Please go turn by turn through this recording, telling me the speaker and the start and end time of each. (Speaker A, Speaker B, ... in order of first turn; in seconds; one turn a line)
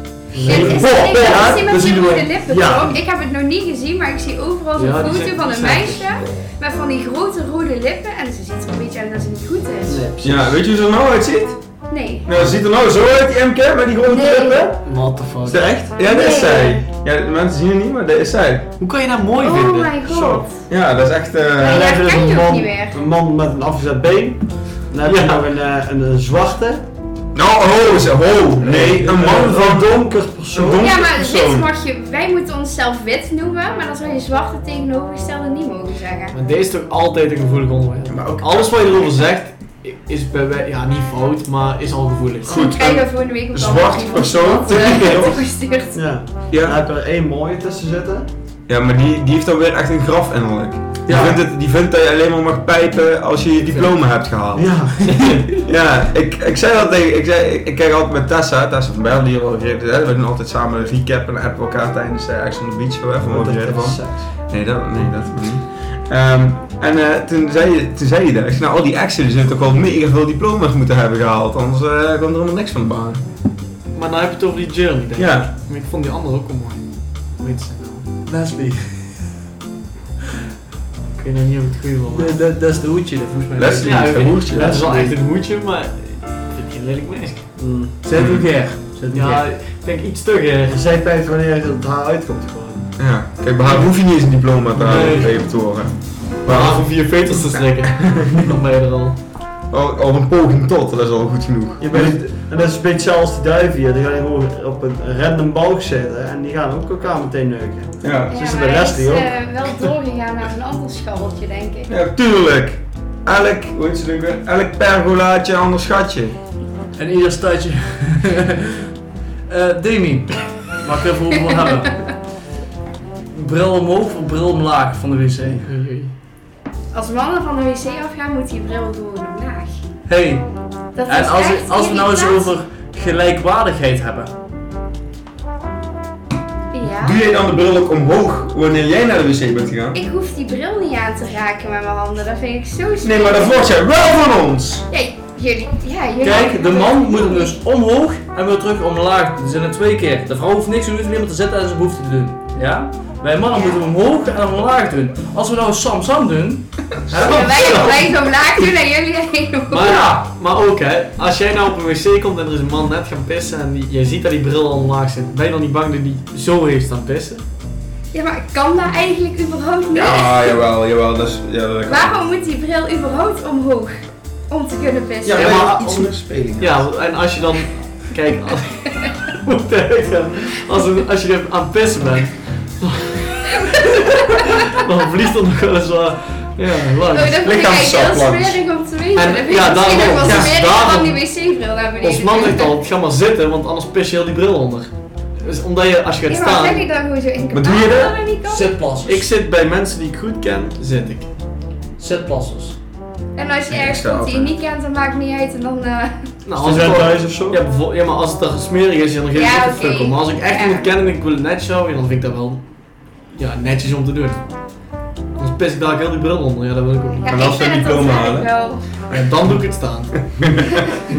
Speaker A: 0.3-3.0
Speaker B: 0.3-1.5
Speaker C: 0.4-10.1
Speaker D: 0.4-0.9
Speaker B: 4.8-6.2
Speaker A: 9.9-10.6
Speaker D: 10.2-11.6
Speaker C: 11.9-12.3
Speaker D: 12.2-14.8
Speaker C: 14.1-14.7
Speaker B: 14.8-15.6
Speaker D: 15.4-18.7
Speaker C: 16.0-16.8
Speaker B: 18.8-20.4
Speaker C: 19.4-20.6
Speaker D: 20.7-21.9
Speaker C: 21.6-22.9
Speaker A: 21.6-26.8
Speaker B: 25.0-25.4
Speaker D: 27.3-31.7
Speaker A: 28.6-30.9
Speaker C: 30.8-36.3
Speaker B: 36.3-42.7
Speaker D: 38.1-38.8
Speaker D: 42.5-45.4
Speaker C: 42.5-46.1
Speaker A: 45.9-48.3
Speaker D: 46.5-46.8
Speaker D: 48.7-54.9
Speaker E: 51.1-51.4
Speaker A: 54.5-55.5
Speaker B: 55.0-55.6
Speaker D: 55.6-73.2
Speaker A: 63.3-64.3
Speaker B: 73.9-78.0
Speaker D: 75.2-75.5
Speaker E: 78.2-79.4
Speaker B: 81.1-82.4
Speaker E: 82.1-84.3
Speaker D: 83.6-84.8
Speaker B: 83.7-87.6
Speaker A: 84.5-85.1
Speaker A: 87.5-87.9
Speaker E: 88.0-89.5
Speaker D: 88.1-88.5
Speaker B: 89.1-90.8
Speaker A: 90.7-93.0
Speaker D: 93.0-98.4
Speaker B: 94.7-95.4
Speaker B: 96.4-99.2
Speaker D: 99.7-102.2
Speaker A: 101.8-109.3
Speaker D: 108.0-108.4
Speaker C: 108.3-111.9
Speaker D: 111.9-116.3
Speaker E: 117.0-118.9
Speaker E: 119.5-122.2
Speaker E: 123.3-125.7
Speaker B: 125.6-126.1
Speaker C: 126.9-129.7
Speaker E: 130.1-130.4
Speaker C: 130.9-132.5
Speaker E: 131.0-134.3
Speaker C: 136.7-137.2
Speaker D: 136.8-140.0
Speaker C: 139.9-143.6
Speaker D: 143.0-144.8
Speaker C: 144.9-147.5
Speaker E: 146.2-158.0
Speaker C: 157.1-160.0
Speaker B: 157.2-158.1
Speaker B: 159.7-167.4
Speaker E: 159.7-160.2
Speaker C: 168.1-170.6
Speaker D: 169.9-172.2
Speaker C: 171.9-173.9
Speaker C: 174.5-175.8
Speaker D: 175.2-176.9
Speaker B: 175.3-187.4
Speaker C: 187.1-192.8
Speaker D: 187.4-188.6
Speaker B: 189.1-191.2
Speaker D: 189.9-190.6
Speaker B: 192.0-196.9
Speaker C: 196.3-198.7
Speaker D: 197.5-198.2
Speaker E: 198.5-199.3
Speaker B: 199.1-201.3
Speaker E: 202.0-202.8
Speaker C: 203.3-206.1
Speaker D: 203.7-204.5
Speaker B: 206.4-212.6
Speaker A: 206.5-207.6
Speaker C: 209.3-210.9
Speaker B: 213.3-214.4
Speaker B: 215.3-217.3
Speaker C: 217.2-218.9
Speaker D: 217.3-218.5
Speaker B: 219.1-220.3
Speaker D: 220.3-220.8